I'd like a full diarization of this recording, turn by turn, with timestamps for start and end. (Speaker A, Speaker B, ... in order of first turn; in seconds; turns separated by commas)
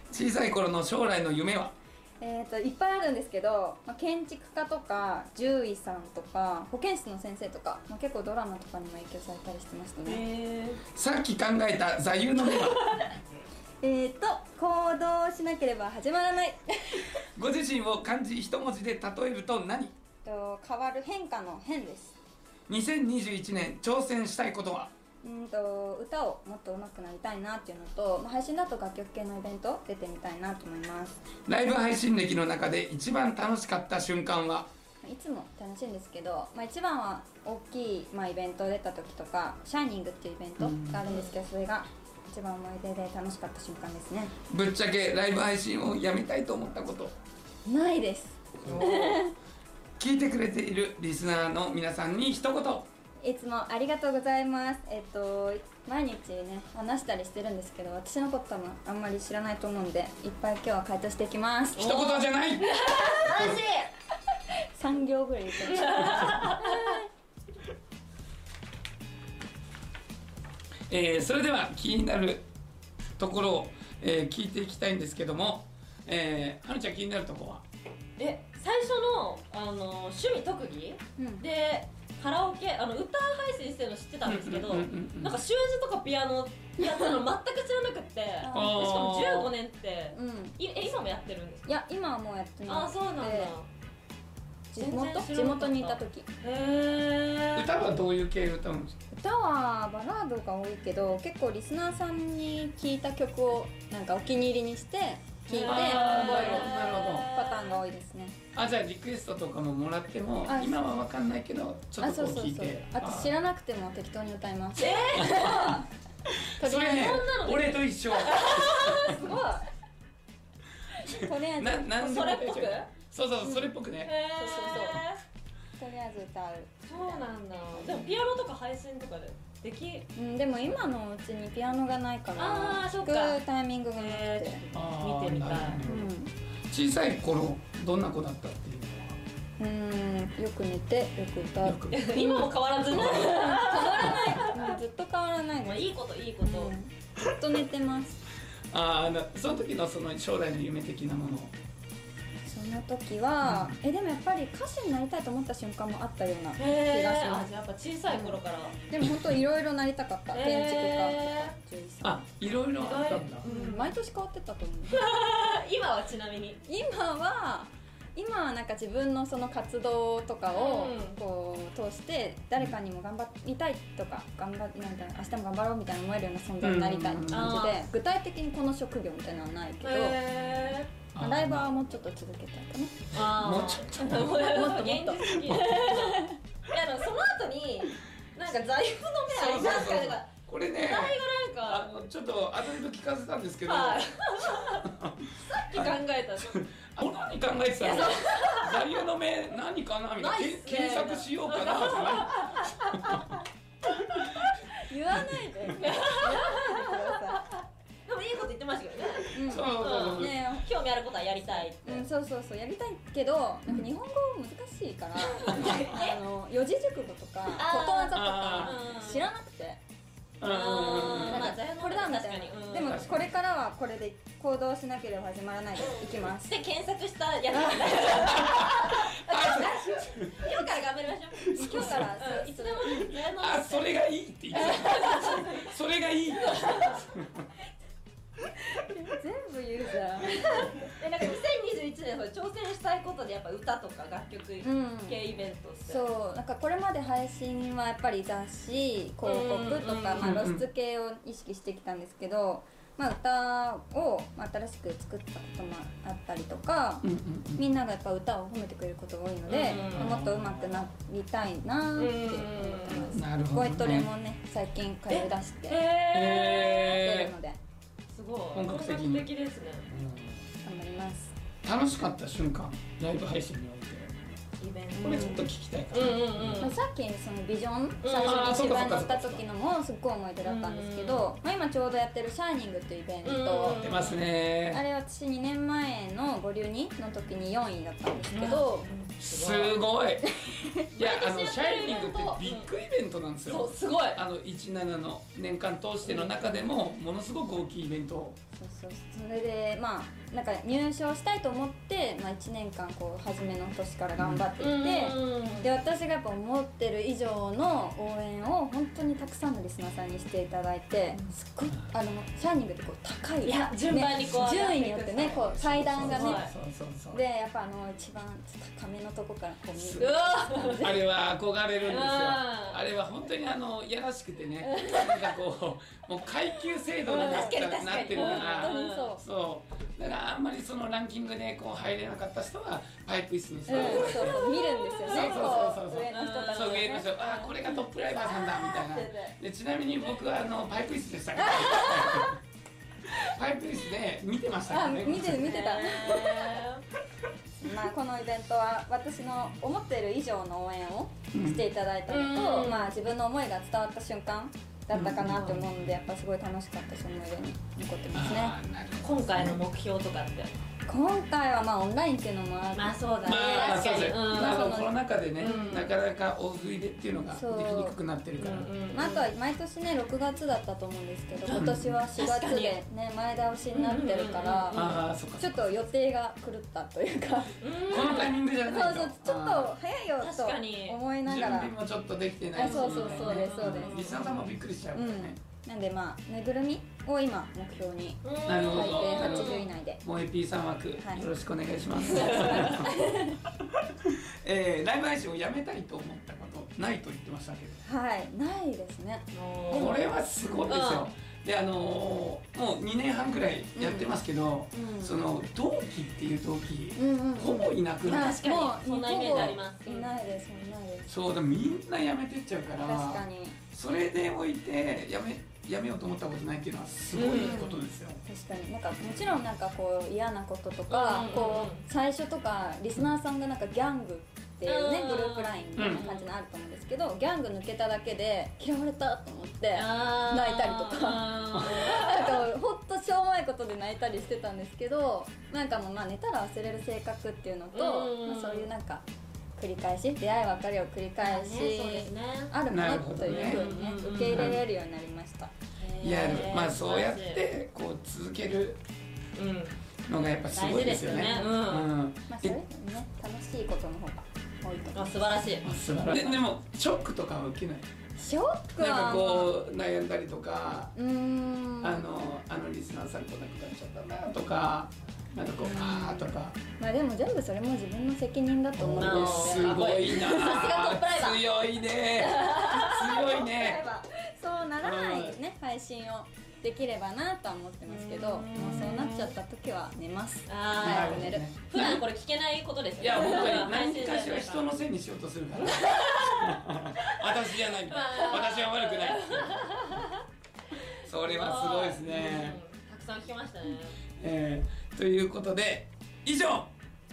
Speaker A: 0.1-1.8, Speaker B: 2.2-10.2, Speaker C: 10.1-10.8, Speaker A: 10.9-13.1, Speaker C: 12.8-13.1, Speaker B: 13.8-17.2, Speaker A: 17.4-20.0, Speaker B: 20.2-22.2, Speaker A: 22.7-24.9, Speaker B: 25.2-31.2, Speaker A: 31.5-34.7, Speaker B: 35.0-44.3, Speaker A: 40.6-41.1, Speaker A: 44.5-47.1, Speaker B: 47.7-49.4, Speaker A: 48.6-49.2, Speaker A: 50.0-52.9, Speaker B: 53.2-62.2, Speaker A: 61.8-63.6, Speaker C: 61.8-63.9, Speaker B: 64.7-67.1, Speaker C: 65.7-67.0, Speaker A: 70.9-72.5, Speaker A: 73.2-77.7, Speaker C: 78.2-91.7, Speaker B: 81.2-81.5, Speaker A: 84.2-85.4, Speaker B: 88.4-88.9, Speaker A: 88.5-89.5, Speaker B: 90.1-90.6, Speaker B: 91.7-93.5, Speaker C: 92.7-93.7, Speaker B: 94.7-96.3, Speaker C: 94.8-97.7, Speaker A: 97.5-99.0, Speaker B: 99.1-108.4, Speaker C: 105.5-107.8, Speaker A: 105.6-107.3, Speaker A: 108.5-113.4, Speaker B: 110.5-110.9, Speaker B: 112.0-115.9, Speaker C: 114.8-115.8, Speaker A: 116.3-119.3, Speaker B: 116.6-117.2, Speaker C: 116.7-119.5, Speaker B: 119.1-119.6, Speaker A: 121.0-124.2, Speaker B: 121.1-122.0, Speaker C: 122.0-122.9, Speaker B: 123.4-123.8, Speaker C: 124.0-125.2, Speaker B: 124.3-125.1, Speaker B: 125.8-128.1, Speaker C: 126.8-130.1, Speaker B: 130.2-134.6, Speaker C: 132.4-133.4, Speaker C: 134.0-135.8, Speaker A: 134.7-136.1, Speaker B: 135.8-136.3, Speaker A: 136.7-139.2, Speaker B: 139.6-148.2, Speaker A: 141.6-143.5, Speaker C: 141.9-144.8, Speaker C: 145.6-146.7, Speaker A: 148.7-151.6, Speaker B: 152.5-157.5, Speaker A: 153.4-153.8, Speaker C: 156.6-158.8, Speaker B: 158.1-158.4, Speaker B: 158.9-162.3, Speaker A: 159.0-159.4, Speaker C: 160.3-161.5, Speaker A: 162.0-163.5, Speaker C: 162.8-163.9, Speaker B: 163.4-165.1, Speaker C: 164.9-166.6, Speaker B: 166.7-180.2, Speaker C: 170.5-171.2, Speaker A: 176.6-177.7, Speaker C: 177.3-177.8, Speaker C: 179.8-180.9, Speaker A: 181.1-181.7, Speaker B: 181.2-183.1, Speaker C: 183.1-191.9, Speaker A: 183.1-185.9, Speaker B: 184.4-185.3, Speaker B: 185.9-186.3, Speaker A: 189.3-203.2, Speaker C: 193.7-194.9, Speaker C: 195.4-196.6, Speaker C: 197.8-198.8, Speaker C: 200.2-203.2, Speaker B: 204.7-207.5, Speaker C: 205.8-212.1, Speaker B: 209.3-210.7, Speaker A: 209.4-210.5, Speaker B: 211.8-219.8, Speaker C: 215.4-216.2, Speaker A: 215.6-215.9, Speaker C: 217.6-219.3, Speaker A: 218.1-218.8, Speaker A: 220.4-221.6, Speaker C: 220.4-223.1, Speaker B: 221.1-226.6, Speaker A: 222.8-223.3, Speaker C: 226.5-233.9, Speaker A: 228.0-230.5, Speaker A: 231.4-232.2, Speaker B: 231.6-233.2, Speaker A: 233.3-237.5, Speaker C: 234.5-235.7, Speaker B: 235.0-235.3, Speaker C: 236.3-237.0, Speaker B: 238.9-240.8, Speaker C: 240.5-246.0, Speaker B: 244.6-245.2, Speaker B: 245.9-265.9, Speaker C: 249.2-250.3, Speaker A: 250.2-250.6, Speaker A: 257.0-257.6, Speaker C: 259.5-260.1, Speaker A: 259.9-260.9, Speaker C: 262.0-263.2, Speaker A: 263.1-264.1, Speaker C: 265.1-267.0, Speaker A: 266.1-267.3, Speaker B: 266.9-267.6, Speaker C: 268.1-269.9, Speaker A: 268.5-269.3, Speaker A: 269.9-270.5, Speaker B: 270.6-271.3, Speaker A: 271.6-274.3, Speaker C: 274.6-276.7, Speaker A: 274.9-276.7, Speaker B: 275.0-275.5, Speaker B: 276.6-283.8, Speaker C: 278.0-278.6, Speaker A: 278.2-279.4, Speaker C: 280.4-281.3, Speaker C: 283.2-284.2, Speaker A: 283.7-284.8, Speaker B: 284.7-288.9, Speaker C: 288.3-289.8, Speaker A: 289.2-298.4, Speaker C: 291.0-292.7, Speaker C: 293.5-294.2, Speaker B: 298.6-316.4, Speaker A: 304.2-304.5, Speaker C: 304.6-305.7, Speaker C: 313.4-315.5, Speaker A: 315.2-317.2, Speaker C: 316.0-316.5, Speaker B: 317.1-321.0, Speaker A: 319.8-320.1, Speaker C: 320.0-320.9, Speaker A: 320.7-334.5, Speaker C: 321.8-322.8, Speaker C: 324.7-325.1, Speaker C: 327.1-329.1, Speaker B: 327.1-329.2, Speaker B: 333.7-337.3, Speaker C: 333.7-339.4, Speaker A: 335.1-342.4, Speaker C: 341.5-342.3, Speaker A: 343.1-345.7, Speaker B: 344.7-346.6, Speaker C: 345.4-346.9, Speaker B: 347.6-358.6, Speaker A: 351.3-351.7, Speaker C: 352.1-352.9, Speaker A: 354.9-355.7, Speaker C: 355.3-355.6, Speaker A: 358.1-359.6, Speaker C: 359.0-360.5, Speaker B: 360.9-364.9, Speaker C: 362.7-364.8, Speaker A: 363.2-368.7, Speaker C: 365.4-365.9, Speaker B: 367.3-368.0, Speaker C: 368.4-369.3, Speaker B: 368.9-381.8, Speaker A: 371.4-372.0, Speaker C: 372.1-372.8, Speaker C: 373.7-375.0, Speaker A: 374.7-375.7, Speaker C: 377.6-378.3, Speaker A: 377.9-379.8, Speaker C: 380.2-381.0, Speaker A: 381.2-385.4, Speaker B: 382.5-384.3, Speaker C: 382.6-384.4, Speaker B: 384.9-390.0, Speaker C: 388.2-389.7, Speaker A: 388.5-393.0, Speaker B: 391.0-391.3, Speaker C: 392.1-393.3, Speaker B: 392.2-392.7, Speaker A: 393.8-397.8, Speaker B: 397.9-399.9, Speaker C: 399.3-400.0, Speaker A: 399.7-408.4, Speaker C: 400.7-401.1, Speaker B: 403.8-404.2, Speaker B: 404.7-405.2, Speaker B: 407.0-411.2, Speaker C: 408.1-410.1, Speaker A: 409.1-409.6, Speaker A: 411.1-418.2, Speaker B: 412.8-413.6, Speaker C: 417.1-417.7, Speaker B: 417.3-439.1, Speaker C: 420.9-421.8, Speaker C: 424.6-426.3, Speaker A: 425.8-426.1, Speaker C: 429.7-432.4, Speaker C: 437.7-438.7, Speaker B: 439.6-445.5, Speaker C: 441.2-442.5, Speaker A: 442.7-443.6, Speaker C: 443.2-444.6, Speaker A: 444.3-444.6, Speaker C: 445.8-447.4, Speaker A: 446.0-448.8, Speaker C: 449.4-449.8, Speaker A: 450.1-452.6, Speaker C: 450.5-451.9, Speaker B: 451.2-451.5, Speaker B: 452.3-455.4, Speaker C: 454.9-456.2, Speaker A: 455.6-457.9, Speaker B: 458.2-459.5, Speaker A: 458.8-460.9, Speaker B: 461.0-462.0, Speaker A: 461.8-466.6, Speaker B: 465.6-469.9, Speaker A: 468.8-473.9, Speaker C: 468.9-471.4, Speaker C: 472.2-474.0, Speaker B: 472.8-481.5, Speaker A: 474.8-475.4, Speaker C: 477.9-479.4, Speaker C: 480.5-484.7, Speaker A: 480.8-482.0, Speaker A: 483.0-489.8, Speaker C: 485.6-487.3, Speaker C: 487.9-490.2, Speaker A: 491.0-492.6, Speaker C: 491.2-494.0, Speaker A: 494.2-496.7